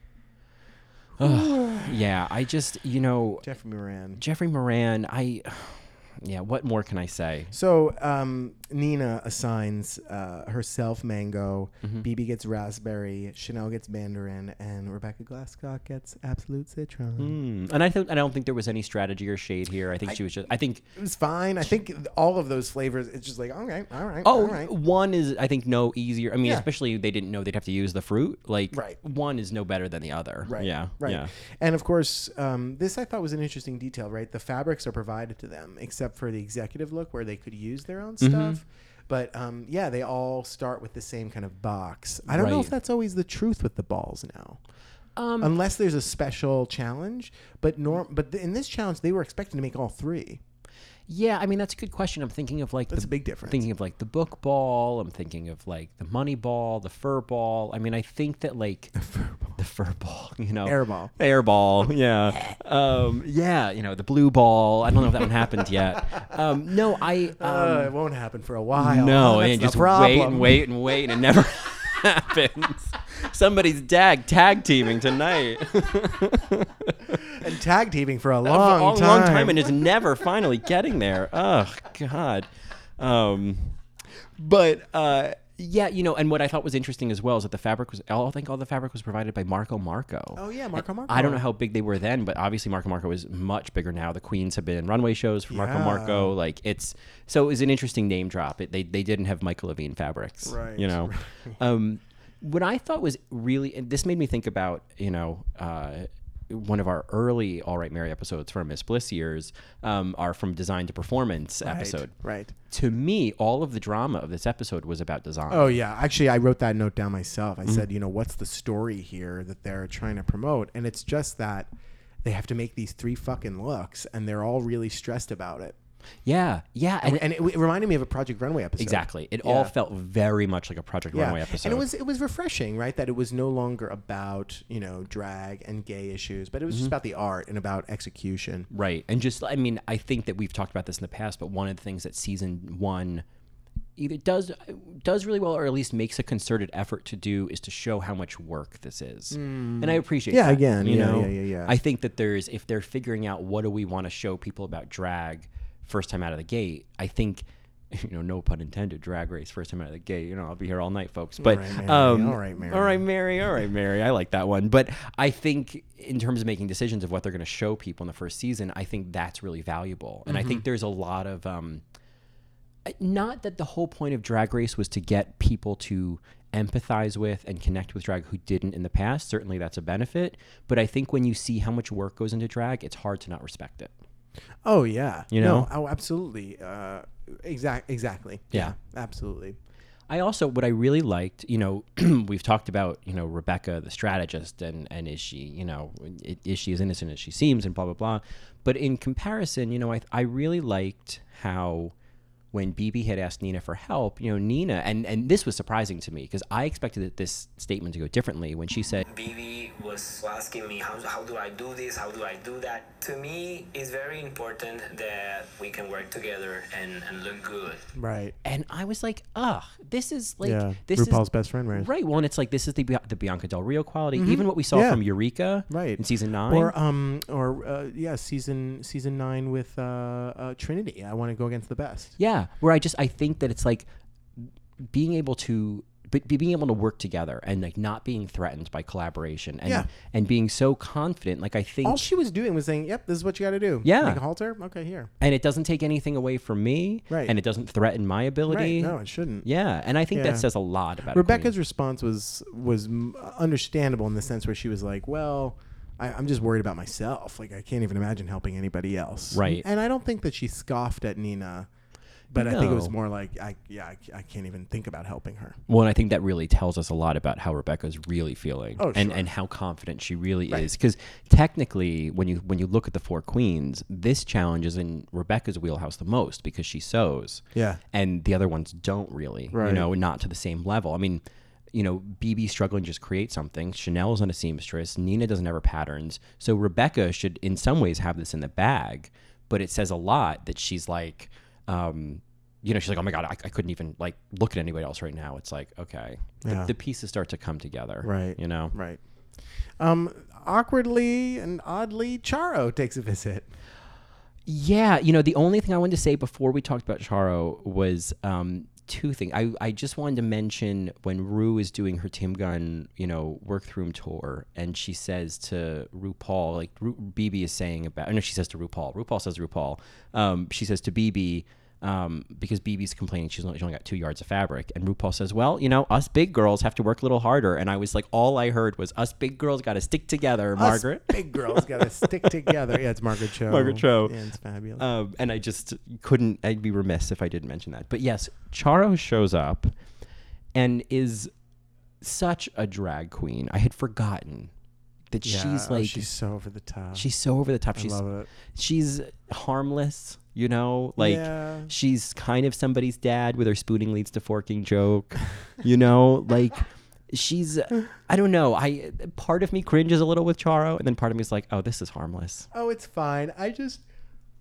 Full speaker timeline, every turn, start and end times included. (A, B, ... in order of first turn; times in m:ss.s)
0:01.2-0:02.1 A
0:01.2-0:03.5 B
0:03.4-0:04.2 A
0:04.2-0:07.5 B
0:07.5-0:17.4 A
0:17.2-0:20.8 B
0:21.0-0:24.7 A
0:24.2-0:31.3 B
0:28.7-0:29.0 A
0:30.4-0:44.6 A
0:38.2-0:38.6 B
0:42.3-0:42.7 B
0:45.2-0:45.5 B
0:45.4-0:50.4 A
0:51.1-0:59.0 B
0:52.9-0:53.6 A
0:59.0-0:59.6 A
0:59.6-1:07.9 B
1:00.6-1:01.1 A
1:07.4-1:10.7 A
1:08.7-1:17.2 B
1:17.3-1:19.8 A
1:18.5-1:23.8 B
1:24.4-1:52.2 B
1:30.4-1:31.4 A
1:35.5-1:36.3 A
1:40.4-1:41.6 A
1:51.6-1:52.6 A
1:52.7-1:55.8 B
1:55.5-2:01.7 A
2:02.2-2:05.8 A
2:06.3-2:07.2 B
2:07.0-2:09.7 A
2:08.8-2:11.9 B
2:11.1-2:18.7 A
2:18.7-2:23.2 B
2:24.0-2:51.8 B
2:29.3-2:31.8 A
2:41.4-2:43.0 A
2:50.3-2:50.6 A
2:52.8-3:03.9 B
3:04.6-3:09.6 A
3:05.3-3:05.7 B
3:10.1-3:21.9 B
3:22.5-3:29.1 B
3:29.1-3:37.9 C
3:38.0-3:38.4 A
3:38.4-3:46.7 B
3:40.4-3:41.9 A
3:44.1-3:45.0 A
3:45.7-3:52.2 A
3:52.2-3:53.9 B
3:54.4-4:02.1 B
4:01.8-4:05.1 A
4:03.8-4:04.2 B
4:05.2-4:11.5 B
4:07.1-4:07.4 A
4:08.5-4:09.5 A
4:10.1-4:10.5 A
4:11.1-4:21.7 A
4:19.3-4:19.6 B
4:22.3-4:25.6 A
4:22.3-4:23.0 B
4:25.7-4:58.7 B
4:28.8-4:29.3 A
4:37.5-4:37.8 A
4:39.5-4:39.9 A
4:56.4-4:56.7 A
4:58.0-4:59.0 A
4:59.8-5:03.5 A
5:04.5-5:32.5 B
5:30.6-5:34.9 A
5:33.4-5:34.2 B
5:34.8-5:39.7 B
5:40.6-5:41.3 B
5:42.0-5:44.5 B
5:45.1-5:46.1 B
5:45.2-5:47.1 A
5:46.9-6:02.5 B
5:47.8-5:48.3 A
5:51.0-5:51.7 A
6:02.5-6:03.8 A